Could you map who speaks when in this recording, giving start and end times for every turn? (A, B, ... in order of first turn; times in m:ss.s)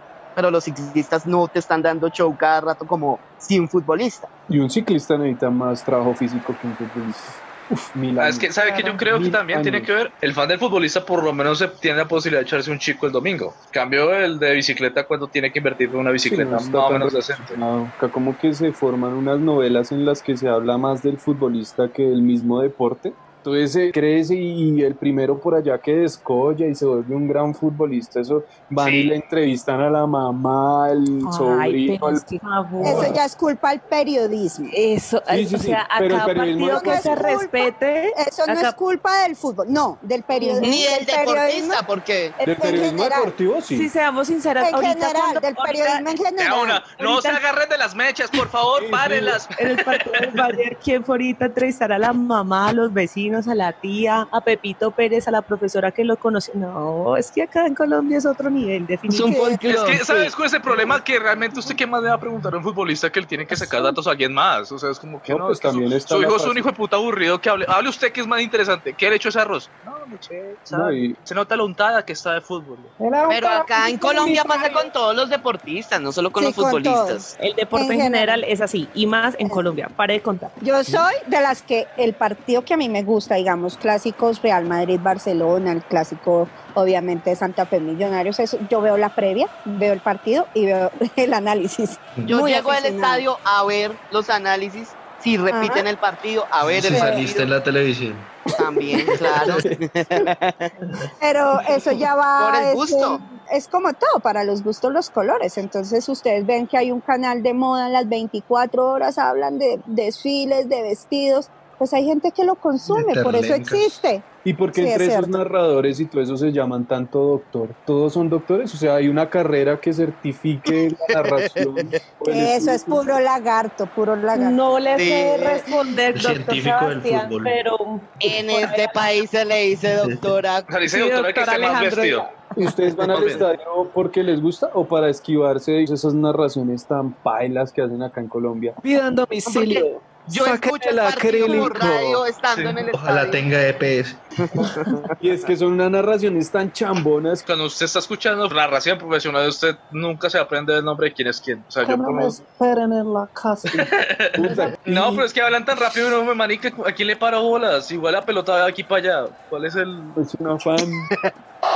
0:00.4-0:04.3 A
0:04.5-0:09.9 B
0:08.2-0:17.6 C
0:16.2-0:32.2 B
0:28.8-0:29.1 C
0:31.2-0:33.2 D
0:32.8-0:33.2 B
0:32.8-0:34.7 E
0:34.7-0:38.7 D
0:35.3-0:37.2 B
0:36.6-0:41.8 E
0:40.3-0:40.8 D
0:40.6-0:42.4 A
0:42.4-0:43.9 B
0:42.4-0:43.3 E
0:43.7-0:46.0 D
0:44.6-0:46.8 E
0:46.4-0:50.0 C
0:47.0-0:47.4 D
0:48.8-0:49.3 B
0:49.5-0:59.5 D
0:59.1-1:00.3 A
0:59.2-0:59.6 E
0:59.6-1:12.9 C
1:05.3-1:06.6 B
1:10.7-1:11.2 B
1:13.3-1:14.9 E
1:13.3-1:17.3 A
1:16.4-1:18.4 E
1:17.4-1:20.5 D
1:20.6-1:33.2 E
1:32.3-1:37.5 A
1:35.5-1:35.8 E
1:36.6-1:38.3 F
1:36.9-1:37.2 E
1:38.6-1:40.7 A
1:39.2-1:39.6 F
1:41.2-1:55.4 E
1:42.4-1:43.2 A
1:52.8-1:54.0 F
1:54.4-2:03.0 B
2:01.4-2:01.9 A
2:02.3-2:04.8 E
2:04.3-2:08.9 D
2:04.9-2:05.6 A
2:06.1-2:07.6 F
2:08.2-2:10.6 A
2:10.7-2:12.2 C
2:10.9-2:12.5 D
2:12.6-2:18.8 B
2:13.1-2:13.4 C
2:18.8-2:21.9 G
2:19.4-2:23.4 A
2:22.5-2:24.2 F
2:24.5-2:25.1 A
2:25.2-2:27.4 B
2:27.4-2:32.4 C
2:33.7-2:35.0 B
2:33.8-2:40.2 C
2:40.2-2:41.1 B